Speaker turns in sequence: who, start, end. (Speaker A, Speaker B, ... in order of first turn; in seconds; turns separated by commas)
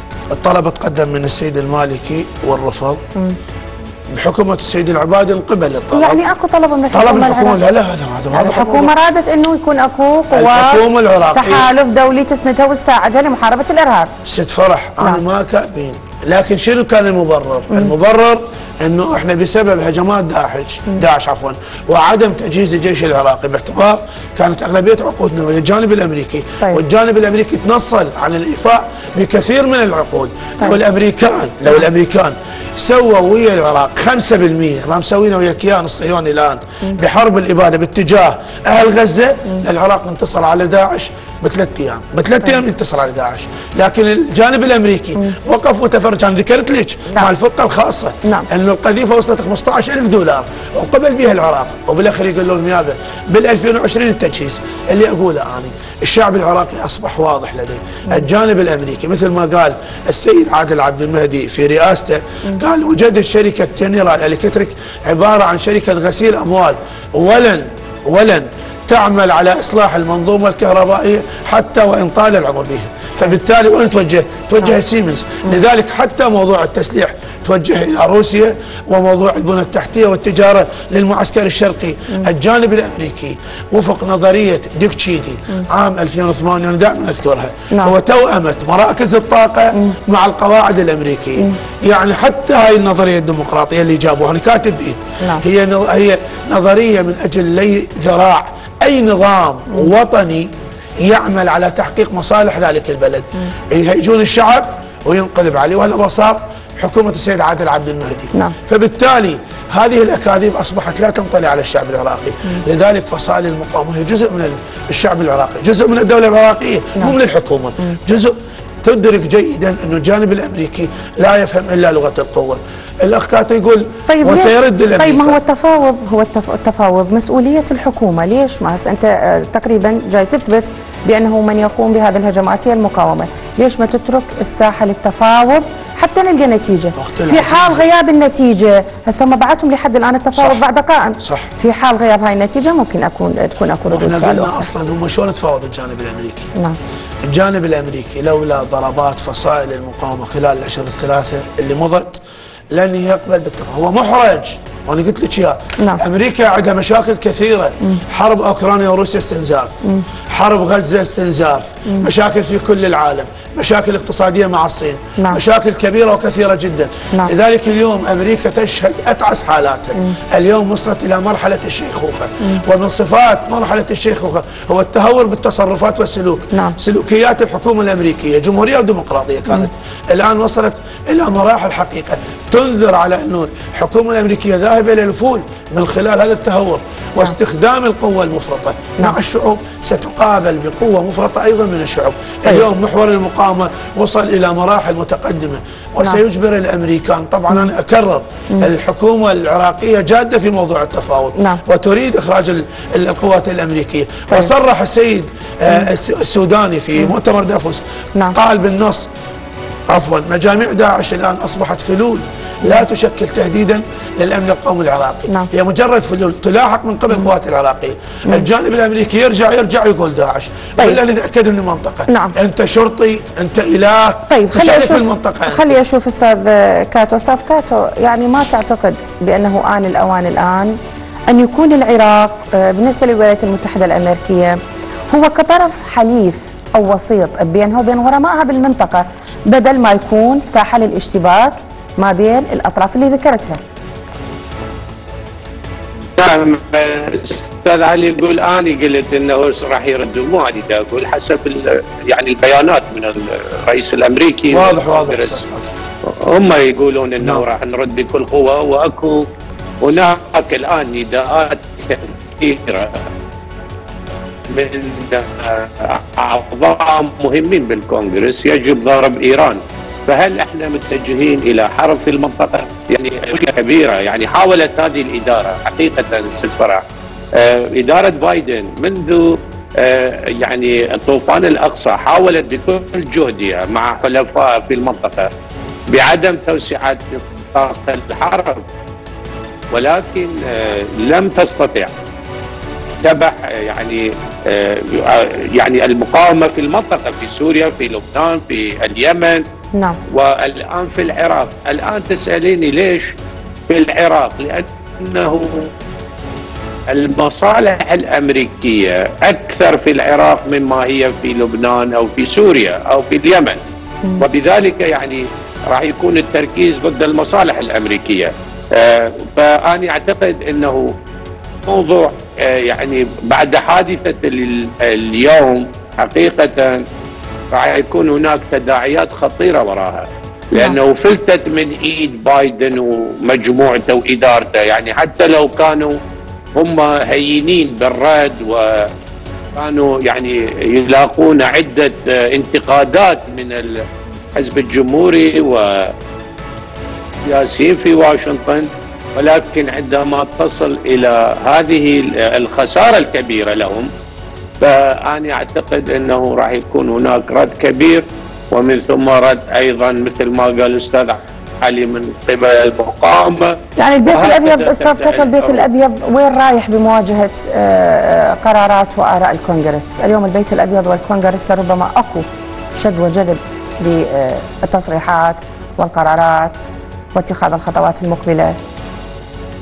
Speaker A: 0.3-3.0, Speaker A: 4.1-6.2, Speaker B: 5.9-7.6, Speaker A: 6.9-8.9, Speaker B: 8.3-10.8, Speaker A: 10.3-11.7, Speaker B: 11.3-14.1, Speaker A: 14.2-125.4, Speaker B: 124.1-144.7, Speaker A: 136.9-137.8, Speaker A: 140.3-140.6, Speaker A: 141.2-141.5, Speaker A: 143.9-146.5, Speaker A: 147.2-152.2, Speaker A: 152.7-209.1, Speaker B: 176.5-176.8, Speaker A: 209.9-225.8, Speaker B: 222.1-222.3, Speaker B: 224.3-230.8, Speaker B: 231.3-243.6, Speaker C: 246.2-255.4, Speaker A: 254.5-255.7, Speaker C: 256.0-259.3, Speaker A: 257.2-257.5, Speaker C: 259.8-263.1, Speaker C: 264.5-276.8, Speaker C: 277.3-285.3, Speaker C: 285.9-288.6, Speaker C: 289.7-291.9, Speaker C: 293.0-299.4, Speaker C: 300.1-303.1, Speaker C: 303.7-305.7, Speaker C: 306.9-313.6, Speaker C: 314.2-320.9, Speaker C: 321.6-326.9, Speaker C: 327.5-336.0, Speaker C: 336.6-338.9, Speaker C: 339.6-343.8, Speaker C: 344.4-345.9, Speaker C: 347.2-353.9, Speaker C: 354.6-365.6, Speaker B: 363.8-376.6, Speaker B: 377.1-378.6